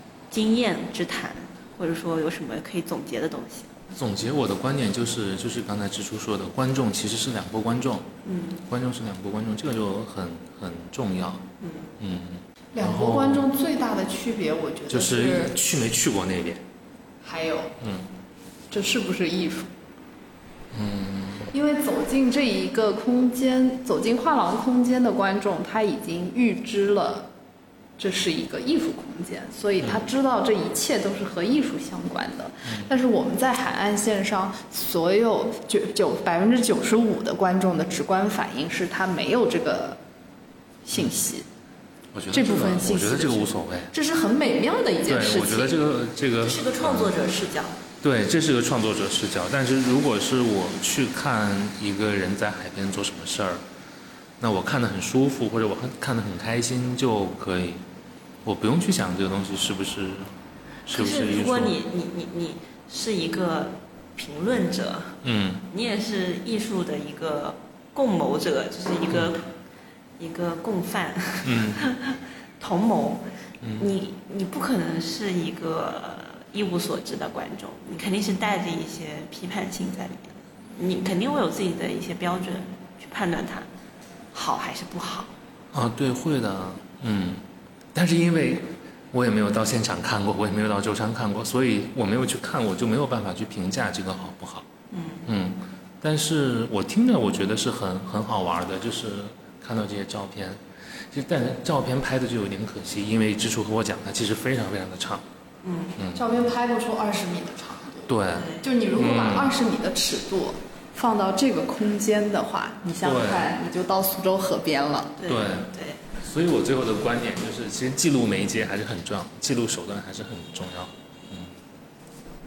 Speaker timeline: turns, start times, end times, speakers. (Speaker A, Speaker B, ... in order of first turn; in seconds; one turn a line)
Speaker A: 0.3-3.7
Speaker B: 3.9-8.1
Speaker A: 8.2-8.6
Speaker B: 8.7-11.4
Speaker A: 11.6-11.9
Speaker B: 12.0-13.5
Speaker C: 12.7-15.5
Speaker B: 14.9-16.6
Speaker C: 17.2-17.7
Speaker B: 17.8-18.1
Speaker C: 18.7-19.7
Speaker B: 20.7-21.5
Speaker C: 21.5-27.3
Speaker C: 28.0-40.0
Speaker C: 40.8-41.5
Speaker B: 42.1-43.9
Speaker C: 42.3-45.8
Speaker B: 45.1-47.1
Speaker A: 46.4-47.8
Speaker B: 48.0-53.6
Speaker B: 54.4-57.8
Speaker B: 58.4-60.3
Speaker B: 60.9-61.7
Speaker A: 60.9-65.2
Speaker B: 65.2-65.6
Speaker A: 65.7-69.5
Speaker A: 70.2-73.3
Speaker B: 71.4-71.8
Speaker B: 73.6-73.9
Speaker A: 73.8-83.7
Speaker A: 84.3-85.3
Speaker B: 85.7-87.4
Speaker B: 87.9-94.7
Speaker A: 94.9-95.2
Speaker B: 95.2-105.2
Speaker A: 105.6-106.0
Speaker B: 106.0-106.3
Speaker C: 106.1-115.2
Speaker B: 108.1-109.5
Speaker A: 108.3-108.6
Speaker B: 113.0-113.5
Speaker A: 115.2-116.1
Speaker B: 115.2-121.5